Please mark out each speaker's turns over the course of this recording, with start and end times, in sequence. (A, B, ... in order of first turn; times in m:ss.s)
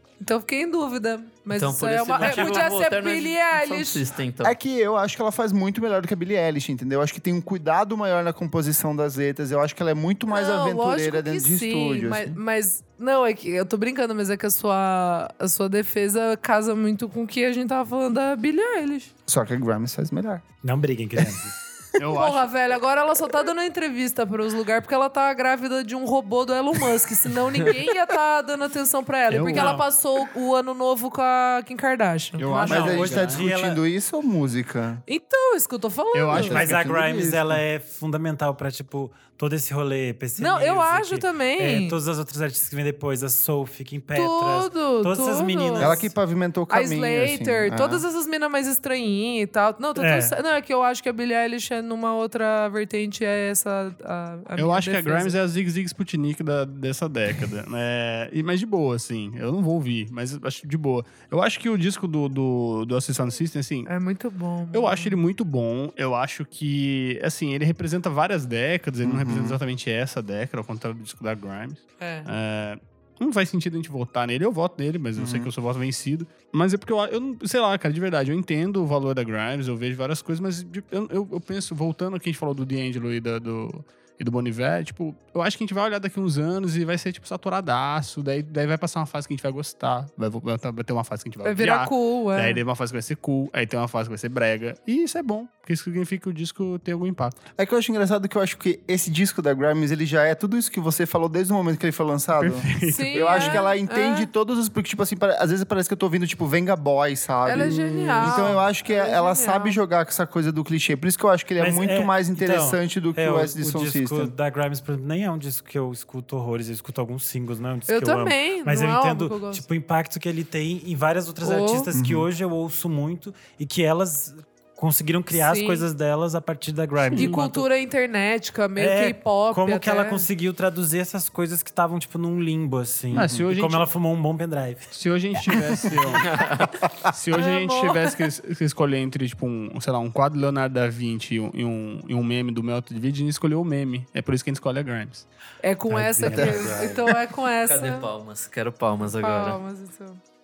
0:00.2-0:04.0 A
0:01.5-0:04.6 B
0:02.2-0:02.8 C
0:04.4-0:12.4 D
0:10.3-0:19.1 A
0:19.3-0:20.4 D
0:20.6-0:21.6 C
0:22.0-0:22.5 E
0:22.1-0:33.2 A
0:29.3-0:29.8 E
0:29.4-0:29.9 C
0:32.4-0:33.5 E
0:32.7-0:33.8 C
0:32.7-0:35.0 D
0:35.1-0:36.6 A
0:36.1-0:37.3 E
0:36.3-0:37.4 D
0:36.4-0:46.1 C
0:40.4-0:42.0 A
0:44.1-0:46.0 A
0:45.8-0:48.0 D
0:46.7-0:55.4 A
0:49.9-0:50.4 C
0:54.6-1:03.9 E
1:03.9-1:05.2 A
1:04.7-1:37.4 E
1:09.0-1:09.6 D
1:12.0-1:12.3 A
1:15.2-1:15.5 D
1:31.4-1:32.6 A
1:37.6-1:54.3 D
1:42.4-1:43.6 E
1:42.8-1:44.3 A
1:47.4-1:49.8 A
1:47.6-1:48.5 E
1:51.6-2:07.6 C
1:57.9-1:59.6 A
2:01.4-2:01.9 A
2:01.9-2:02.3 D
2:05.3-2:05.9 A
2:07.0-2:07.4 E
2:07.2-2:10.3 A
2:08.8-2:14.9 C
2:13.1-2:13.9 E
2:13.2-2:13.4 D
2:14.9-2:25.2 E
2:15.5-2:16.4 C
2:17.3-2:18.2 A
2:25.6-2:28.1 A
2:25.9-2:27.1 C
2:26.2-2:26.9 D
2:27.6-2:29.6 B
2:29.0-2:30.2 A